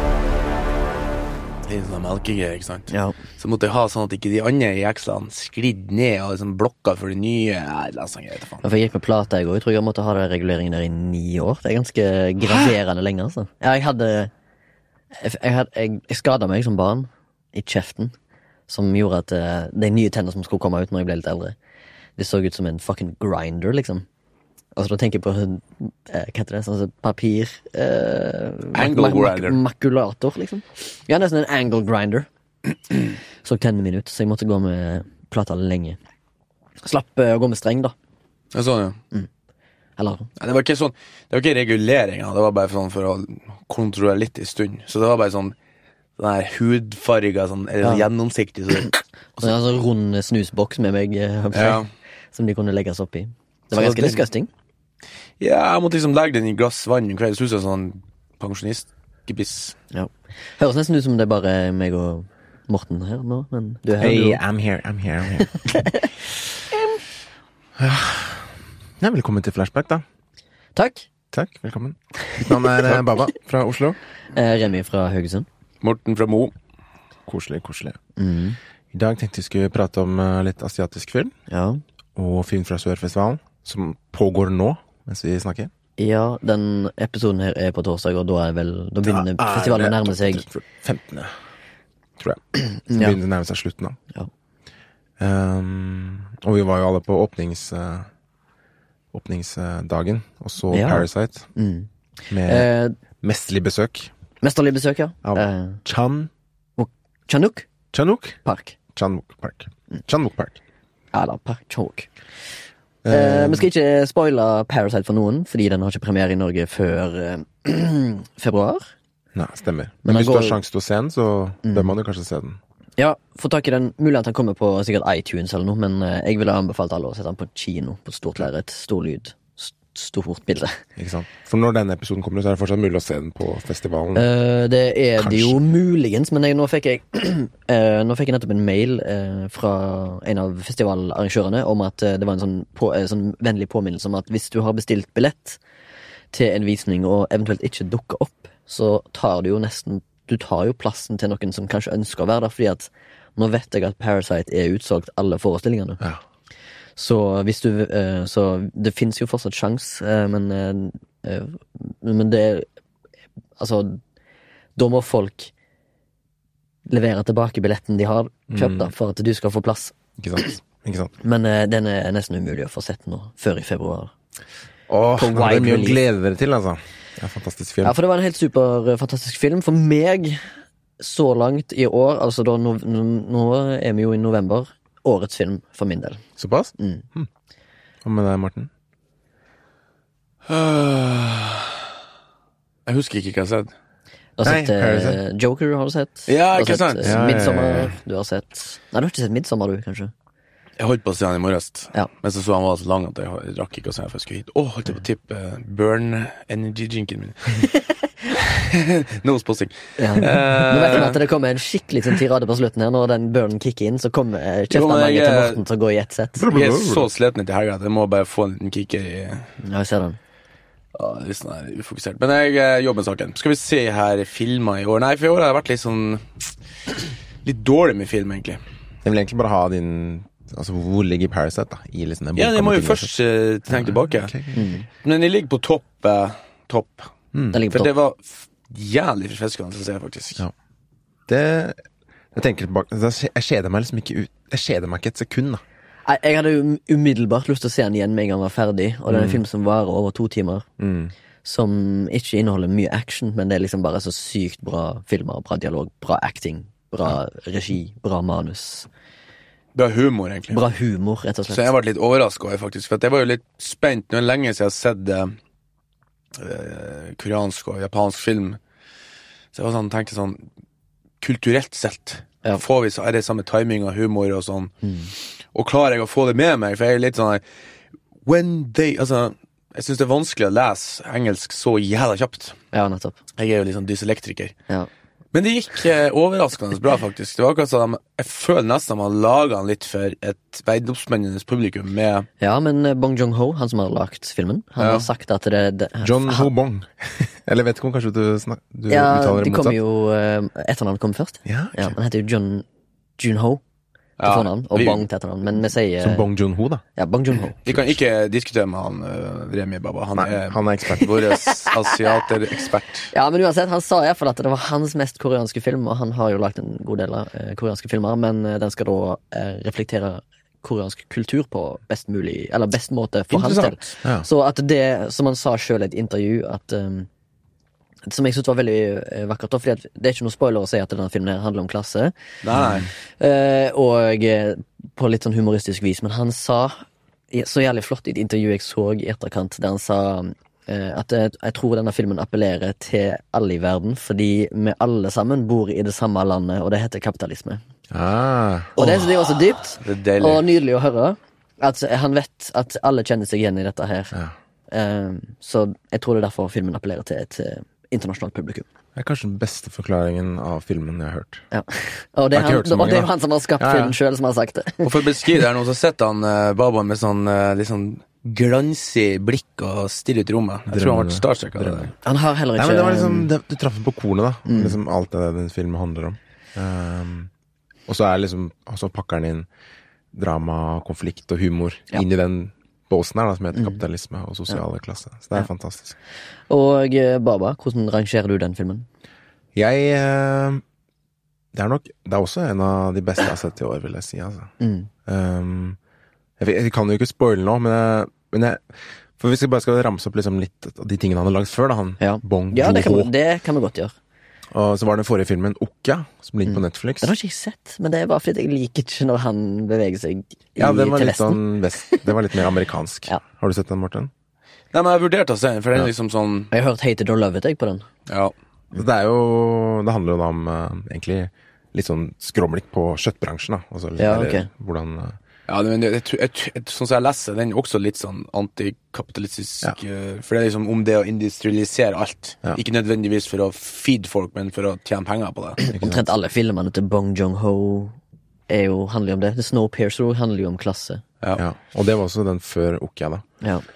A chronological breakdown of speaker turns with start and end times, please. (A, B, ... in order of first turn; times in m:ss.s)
0:01.6-0:08.6 A
0:02.9-0:03.2 B
0:08.6-0:14.3 B
0:15.2-0:18.1 B
0:18.7-0:21.5 B
0:22.2-0:24.0 B
0:24.8-0:36.0 B
0:28.7-0:29.6 A
0:36.8-0:37.9 B
0:38.5-0:39.0 A
0:40.0-0:40.3 B
0:40.4-0:45.5 A
0:46.2-0:49.5 A
0:49.4-0:54.5 B
0:51.5-0:51.9 A
0:53.7-0:54.2 A
0:55.4-0:59.8 A
0:59.9-1:04.4 B
1:04.0-1:05.8 C
1:05.6-1:06.1 B
1:07.8-1:10.0 C
1:10.8-1:11.1 B
1:11.3-1:14.0 C
1:14.3-1:15.5 B
1:15.8-1:16.5 A
1:17.3-1:18.0 C
1:18.2-1:18.6 B
1:18.9-1:21.3 C
1:21.5-1:21.8 B
1:22.2-1:25.7 C
1:26.0-1:30.4 B
1:29.0-1:31.3 C
1:32.2-1:34.0 C
1:32.9-1:33.2 B
1:35.2-1:38.1 C
1:39.1-1:41.5 C
1:40.7-1:42.9 B
1:42.3-1:42.7 C
1:43.2-1:44.1 C
1:44.4-1:45.8 B
1:45.2-1:46.3 C
1:46.8-1:47.7 B
1:47.9-1:48.4 C
1:48.4-1:48.8 B
1:48.9-1:50.6 C
1:51.1-1:52.1 B
1:53.0-1:53.7 C
1:53.1-1:58.9 B
1:59.3-2:02.6 C
2:00.0-2:00.6 B
2:01.6-2:01.9 B
2:03.0-2:10.8 B
2:11.0-2:14.2 C
2:14.1-2:25.6 B
2:15.2-2:15.6 C
2:26.3-2:36.0 B
2:37.0-2:42.6 B
2:43.6-2:44.0 B
2:44.8-2:45.5 B
2:46.9-2:50.6 B
2:48.5-2:48.9 C
2:50.2-2:51.1 C
2:51.2-2:54.1 B
2:54.9-2:58.0 C
2:55.2-2:56.0 B
2:57.8-3:00.4 B
3:01.0-3:06.2 B
3:06.4-3:07.3 C
3:06.8-3:07.0 B
3:08.0-3:08.7 C
3:10.5-3:11.8 A
3:12.8-3:13.7 A
3:14.4-3:20.1 B
3:14.4-3:15.2 C
3:16.3-3:17.2 A
3:17.0-3:17.9 C
3:20.8-3:31.2 A
3:30.0-3:36.4 B
3:34.7-3:35.6 A
3:36.4-3:37.1 C
3:36.5-3:39.5 A
3:39.6-3:40.2 B
3:40.9-3:48.6 A
3:49.0-3:53.1 C
3:52.4-3:54.3 A
3:53.7-3:54.7 C
3:54.5-3:54.8 B
3:55.0-3:57.1 A
3:57.5-3:57.9 B
3:57.7-4:00.4 A
4:01.3-4:01.8 C
4:02.3-4:05.6 C
4:06.0-4:10.6 B
4:09.1-4:09.4 C
4:10.8-4:11.1 C
4:11.4-4:18.9 B
4:19.7-4:20.6 A
4:20.5-4:21.7 B
4:21.5-4:25.3 A
4:26.4-4:28.6 A
4:29.5-4:30.4 A
4:31.2-4:34.7 A
4:34.8-4:35.1 B
4:35.5-4:37.4 A
4:38.2-4:42.6 A
4:42.7-4:43.2 B
4:43.4-4:44.5 A
4:45.3-4:52.3 A
4:52.4-4:56.5 B
4:54.8-4:55.1 A
4:56.0-4:59.8 C
4:58.9-5:02.6 B
5:01.4-5:02.0 C
5:03.2-5:03.6 B
5:04.2-5:05.0 A
5:04.2-5:06.3 B
5:06.0-5:06.8 C
5:07.0-5:07.6 B
5:07.6-5:13.1 A
5:07.7-5:07.9 C
5:10.2-5:11.2 C
5:13.1-5:27.1 B
5:23.3-5:23.9 A
5:28.1-5:32.1 B
5:32.4-5:32.9 A
5:33.2-5:47.6 B
5:47.9-5:48.8 C
5:48.8-5:54.2 B
5:48.8-5:50.4 A
5:54.7-5:58.7 B
5:59.0-6:01.4 C
6:01.5-6:05.0 B
6:02.3-6:03.9 C
6:04.8-6:11.9 A
6:10.7-6:11.9 C
6:12.0-6:13.3 B
6:12.6-6:17.3 C
6:14.5-6:14.8 B
6:17.9-6:19.5 C
6:20.1-6:26.0 C
6:23.6-6:23.8 B
6:26.5-6:28.9 B
6:29.5-6:30.6 C
6:31.5-6:34.5 C
6:34.6-6:34.9 B
6:35.0-6:35.8 C
6:36.4-6:38.6 C
6:39.2-6:43.1 C
6:42.0-6:43.9 B
6:44.5-6:47.1 C
6:46.5-6:52.1 B
6:50.6-6:54.1 C
6:54.7-6:56.5 A
6:56.5-6:57.8 B
6:58.1-6:58.3 A
6:58.7-7:05.2 C
7:04.0-7:04.5 B
7:05.5-7:15.6 A
7:15.6-7:17.9 B
7:15.7-7:16.0 C
7:18.5-7:21.0 B
7:21.4-7:23.2 C